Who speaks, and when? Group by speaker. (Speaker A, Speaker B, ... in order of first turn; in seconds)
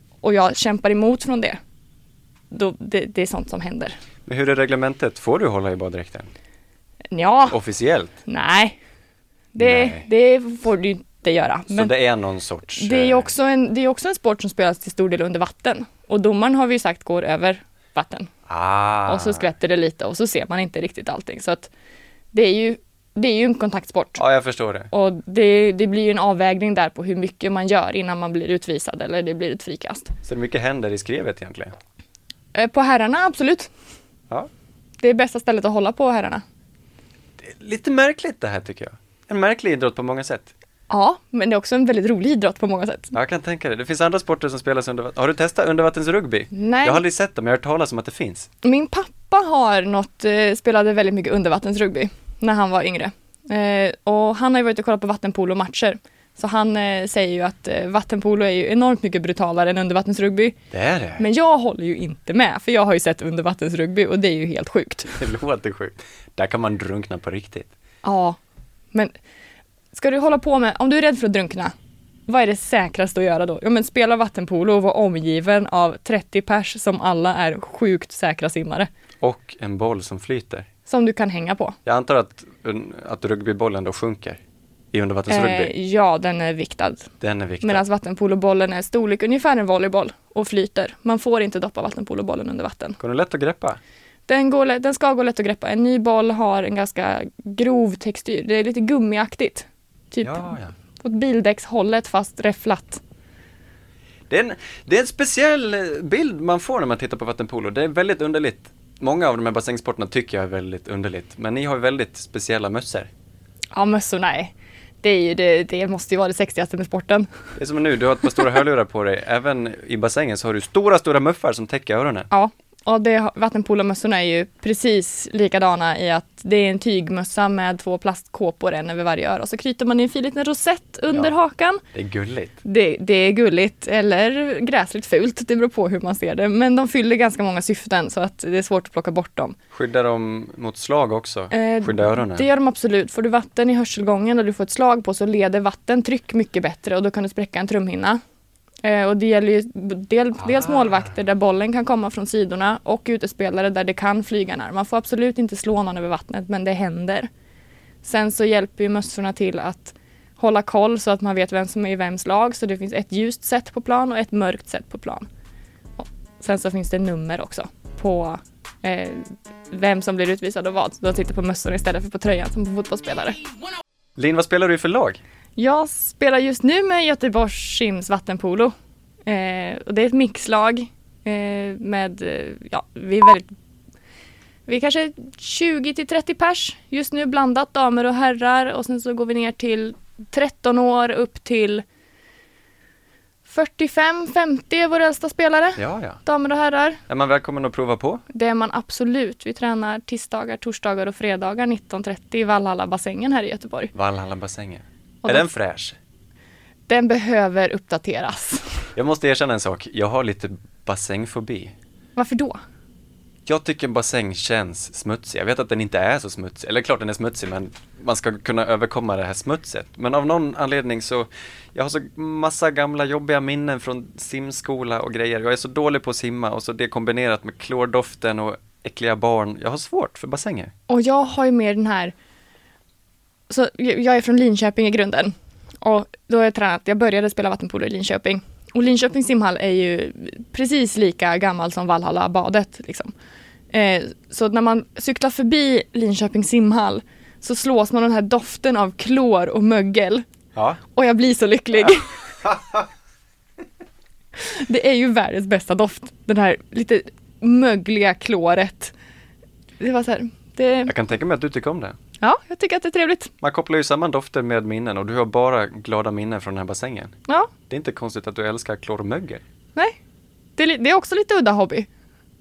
Speaker A: 0.2-1.6, 2.5-4.0, 7.1-7.6, 8.2-8.8, 9.5-11.9, 12.8-18.3, 19.1-21.7, 22.3-24.2, 24.9-30.1, 32.5-33.7, 35.0-36.4, 40.9-43.1, 46.5-47.0, 48.6-60.5, 61.2-65.3, 68.0-68.4, 69.9-71.7, 72.3-78.9, 80.8-81.8, 85.3-87.1, 87.6-93.0, 94.3-103.0, 113.7-117.3, 122.3-131.8, 132.6-139.6, 141.5-148.2, 148.8-157.3, 158.0-165.2, 166.0-173.4, 175.6-178.7, 179.2-183.5, 184.7-191.8, 193.4-197.0, 198.3-203.9, 206.9-208.8, 212.2-212.6, 230.9-232.1, 233.5-243.1, 243.7-250.2, 250.9-252.2, 254.3-258.9, 259.8-260.9, 262.2-263.3, 270.6-271.9
Speaker B: 4.2-6.3, 7.5-8.1, 9.6-10.1, 11.7-13.3, 18.5-19.4, 24.2-24.9, 30.2-31.7, 37.4-40.5, 43.1-48.5, 60.7-61.2, 65.2-67.7, 79.2-80.7, 81.8-84.4, 84.9-85.7, 87.2-87.8, 93.0-93.8, 100.2-100.7, 104.3-113.1, 117.6-122.3, 131.9-132.5, 139.7-142.5, 174.2-175.2, 195.8-196.2, 197.1-198.2, 203.9-206.0, 208.9-211.7, 213.4-230.7, 250.5-250.8, 252.4-252.8, 260.9-261.9, 263.4-267.1, 267.7-269.4